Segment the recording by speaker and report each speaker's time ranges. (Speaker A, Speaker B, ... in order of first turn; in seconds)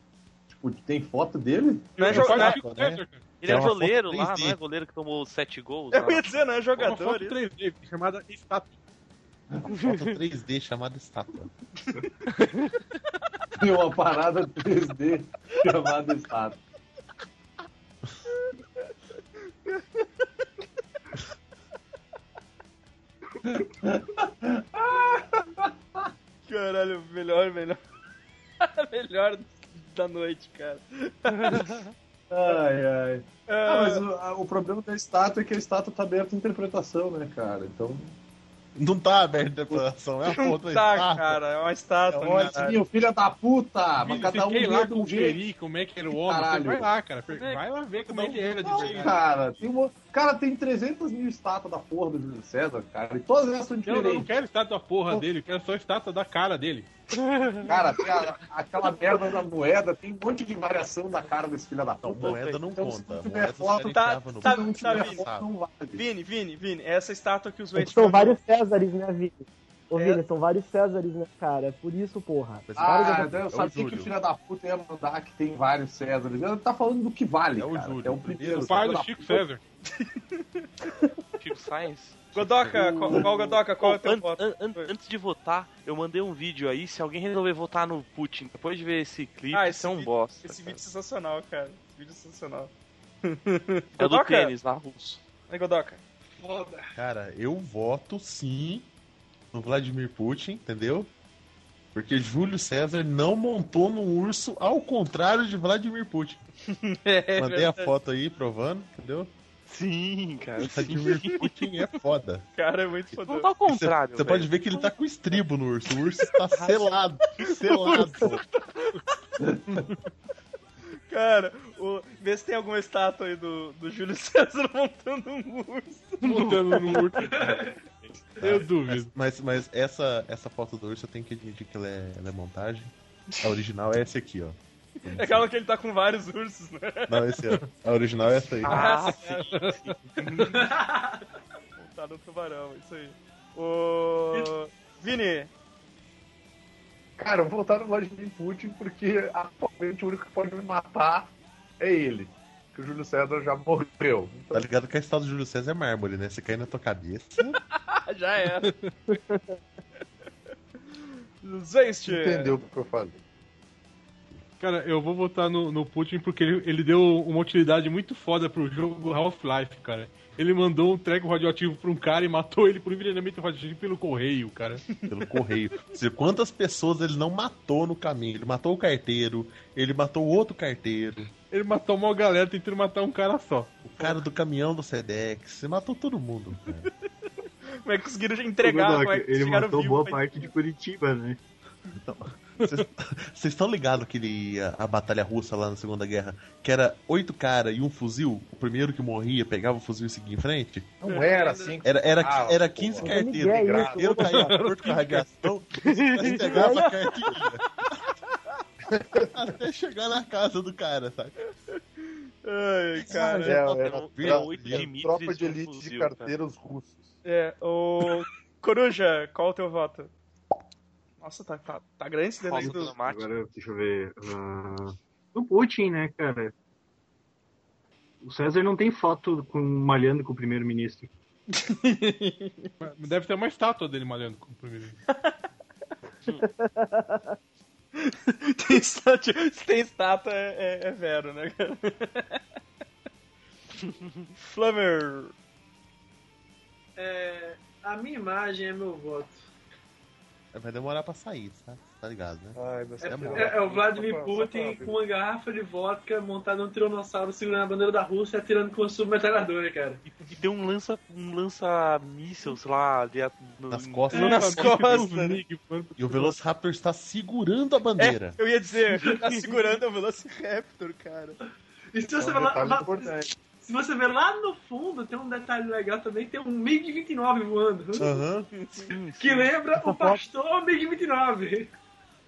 Speaker A: 0.5-2.1, 13.6-16.6, 23.4-26.1, 32.3-38.2, 42.2-45.4, 46.1-46.9, 48.6-54.3, 57.7-66.0, 72.8-79.5, 119.4-119.8, 147.2-154.6, 162.1-163.2, 201.0-204.2, 208.9-209.3, 213.1-217.2, 252.6-255.0, 272.2-273.3
Speaker B: 2.0-2.6, 5.9-7.4, 11.8-12.1, 19.6-20.1, 26.4-27.8, 28.6-31.8, 33.5-34.0, 40.3-42.8, 63.8-65.2, 65.9-68.4, 69.9-70.2, 79.9-80.7, 82.3-84.9, 89.5-92.7, 93.2-94.5, 95.5-96.0, 106.7-107.9, 112.6-113.5, 117.5-119.1, 121.1-127.1, 135.1-137.3, 138.7-139.4, 141.8-145.5, 157.7-158.7, 161.4-162.6, 187.8-190.5, 201.4-201.7, 211.7-213.6, 217.2-220.1, 221.2-222.9, 231.5-232.7, 235.1-235.4, 237.9-242.4, 244.4-245.3, 264.1-265.4, 268.0-271.4, 278.5-279.0
Speaker C: 2.0-3.2, 6.8-8.7, 44.0-49.2, 53.9-56.9, 78.6-79.6, 126.2-127.4, 128.4-129.1, 139.3-139.9, 158.5-158.9, 164.6-174.8, 181.5-183.8, 204.2-205.5, 232.8-235.0, 264.1-266.4
Speaker D: 2.1-4.6, 9.8-11.5, 38.8-41.4, 42.1-42.8, 48.1-48.8, 62.0-65.5, 72.7-74.1, 77.6-79.0, 82.3-83.2, 97.0-98.9, 99.5-101.1, 101.9-106.4, 107.4-109.3, 110.6-112.5, 113.7-118.4, 128.4-135.5, 137.1-138.9, 154.5-157.6, 175.1-181.3, 183.8-186.9, 192.0-200.9, 201.8-207.8, 209.3-211.4, 213.4-214.9, 250.5-253.6, 263.7-264.8, 266.0-268.4, 278.0-278.5
Speaker E: 3.4-6.4, 9.8-10.2, 31.5-31.8, 57.4-57.7, 62.2-62.6, 81.4-82.3, 82.8-90.8, 94.0-95.2, 109.7-111.5, 113.2-114.9, 116.6-116.8, 138.7-140.7, 213.7-216.3, 222.5-223.3, 260.1-265.0, 278.9-279.5
Speaker F: 67.8-73.3, 203.1-204.6, 206.4-206.9, 236.6-237.3, 279.8-280.2
Speaker G: 96.4-96.9, 127.2-127.8, 140.5-141.3, 247.0-249.5, 253.0-260.0, 269.0-269.3, 271.9-278.2, 279.1-281.7
Speaker H: 188.6-191.4, 222.5-226.5, 228.2-231.1